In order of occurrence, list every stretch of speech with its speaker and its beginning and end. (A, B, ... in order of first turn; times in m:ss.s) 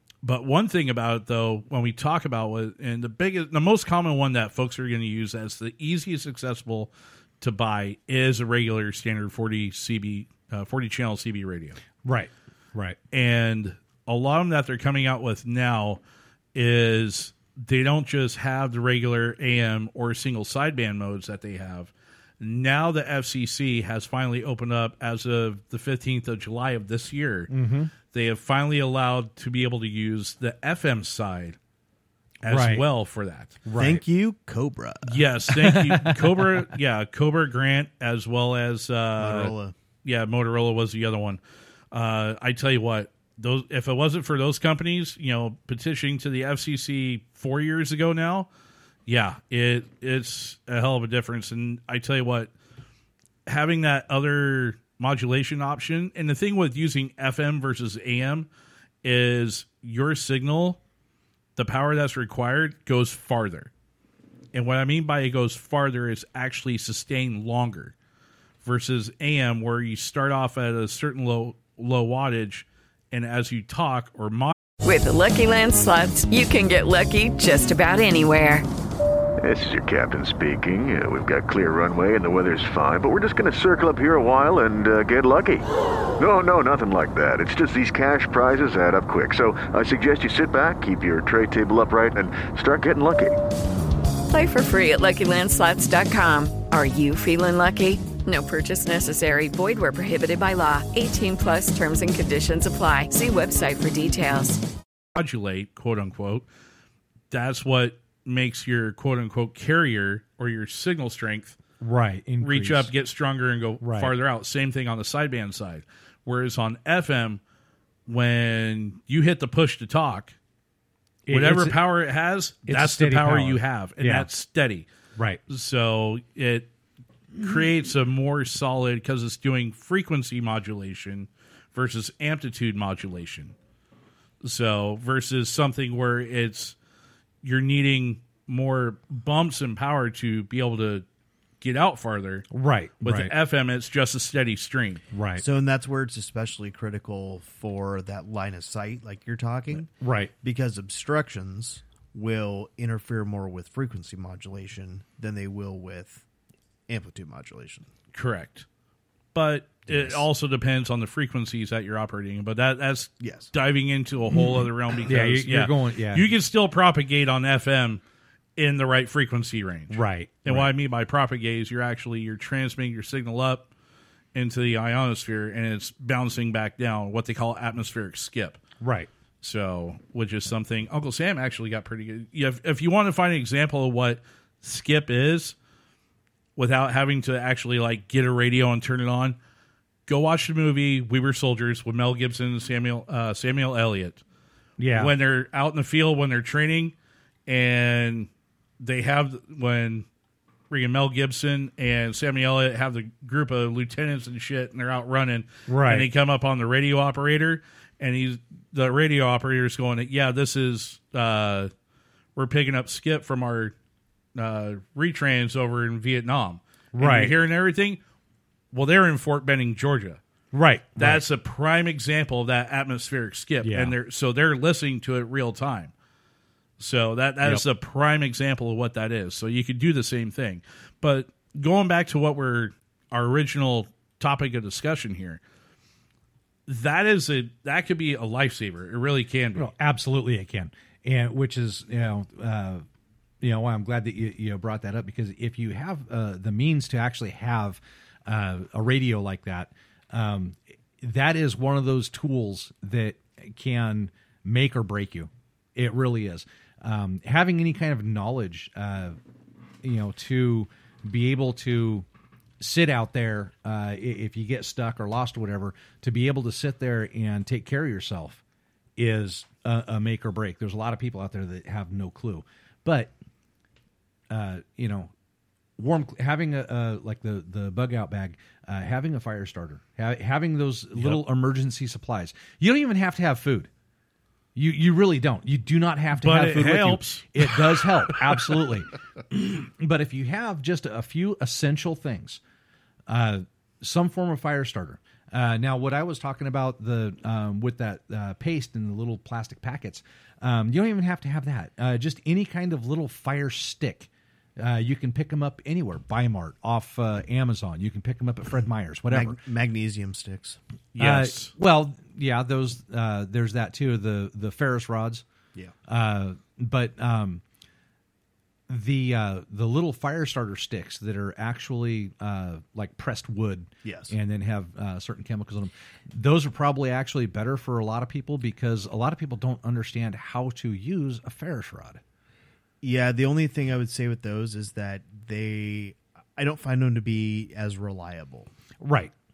0:00.2-0:11.8 A
0:12.0-0:13.0 B
0:13.1-0:16.0 A
0:16.5-0:27.5 A
0:27.5-0:27.9 B
0:28.0-0:31.6 A
0:32.4-0:33.6 A
0:32.5-0:32.8 B
0:33.6-0:34.0 B
0:33.8-0:35.3 C
0:35.0-0:41.4 A
0:35.6-0:36.2 B
0:39.2-0:39.7 C
0:41.9-0:48.5 A
0:49.1-0:52.5 A
0:53.4-0:58.5 A
0:59.0-1:00.8 A
1:01.6-1:03.7 A
1:04.5-1:07.9 A
1:08.6-1:14.5 A
1:14.8-1:18.6 D
1:19.4-1:33.4 E
1:34.3-1:44.6 D
1:45.1-1:46.4 A
1:47.3-1:51.6 A
1:51.8-1:52.9 B
1:52.4-1:57.4 A
1:53.8-1:54.1 B
1:58.1-2:00.3 A
2:01.3-2:01.8 B
2:01.3-2:04.8 A
2:02.6-2:04.3 B
2:05.5-2:06.7 A
2:07.4-2:13.5 A
2:14.4-2:16.7 A
2:17.4-2:21.0 A
2:21.6-2:22.5 A
2:22.5-2:23.3 B
2:23.0-2:25.0 A
2:25.1-2:25.4 B
2:25.4-2:29.9 C
2:30.0-2:30.3 B
2:30.4-2:36.2 C
2:36.9-2:37.9 C
2:38.1-2:38.6 A
2:39.3-2:48.0 A
2:39.9-2:40.2 C
2:43.2-2:43.5 C
2:44.3-2:46.3 B
2:48.6-2:53.7 A
2:49.9-2:50.7 B
2:54.3-2:58.6 A
2:58.8-2:59.1 B
2:59.4-3:05.5 A
3:06.6-3:09.4 A
3:10.1-3:14.2 A
3:14.8-3:15.1 B
3:14.9-3:16.9 A
3:17.5-3:18.3 A
3:18.8-3:20.0 A
3:20.7-3:31.7 A
3:25.7-3:26.1 B
3:32.4-3:33.7 A
3:34.3-3:38.0 A
3:36.9-3:37.3 B
3:38.7-3:40.2 A
3:40.5-3:41.2 B
3:41.0-3:45.9 A
3:43.6-3:43.9 B
3:46.8-3:55.4 A
3:56.7-3:59.7 A
3:59.5-4:02.8 B
4:03.4-4:19.2 B
4:19.8-4:22.0 B
4:22.6-4:28.4 B
4:29.0-4:33.1 B
4:34.3-4:35.1 B
4:35.8-4:43.7 B
4:41.0-4:41.2 A
4:44.5-4:52.4 B
4:46.2-4:48.6 A
4:53.1-5:09.4 B
5:09.1-5:10.6 C
5:10.9-5:11.5 A
5:11.0-5:15.2 B
5:15.9-5:17.4 B
5:18.7-5:32.0 B
5:23.8-5:24.1 C
5:32.8-5:38.5 C
5:38.8-5:39.1 B